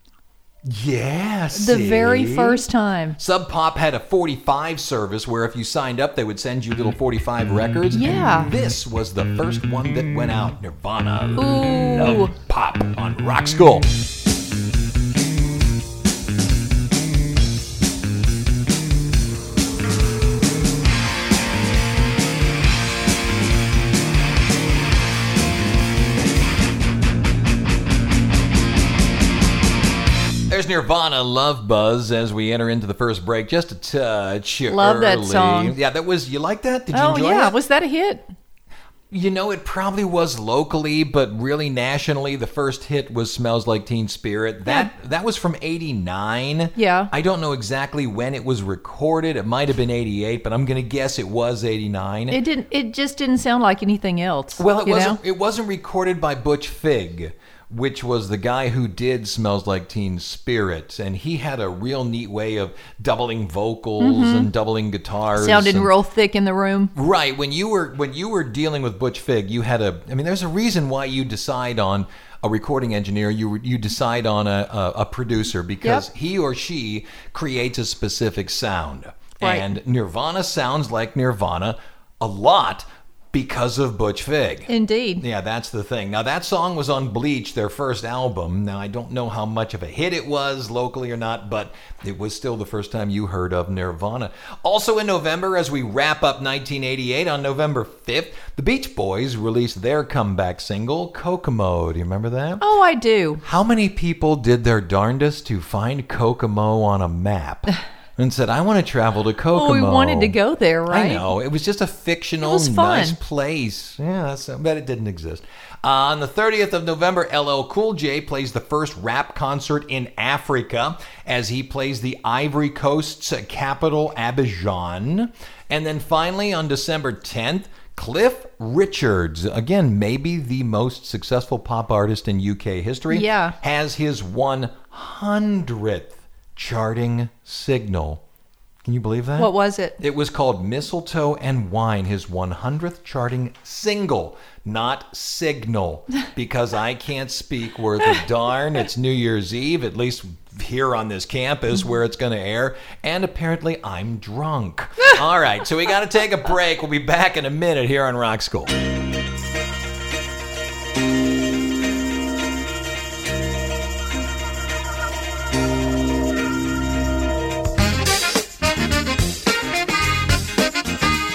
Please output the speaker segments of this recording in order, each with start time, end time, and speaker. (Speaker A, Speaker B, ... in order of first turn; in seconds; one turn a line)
Speaker A: 0.6-2.6
Speaker B: 1.5-3.2
Speaker A: 3.2-13.9
Speaker B: 7.9-8.5
Speaker B: 11.4-12.3
Speaker A: 30.5-37.5
Speaker B: 34.7-35.8
Speaker B: 36.9-38.3
Speaker A: 39.1-52.4
Speaker B: 44.6-44.9
Speaker B: 46.8-47.1
Speaker B: 52.3-55.2
Speaker A: 54.6-65.9
Speaker B: 64.0-64.5
Speaker B: 65.3-66.9
Speaker A: 66.9-102.6
Speaker B: 79.4-79.7
Speaker B: 84.7-85.2
Speaker B: 102.6-103.4
Speaker A: 103.4-110.4
Speaker B: 109.5-111.3
Speaker A: 110.9-138.2
Speaker B: 112.4-113.2
Speaker B: 133.1-133.6
Speaker A: 138.8-158.7
Speaker B: 139.4-140.0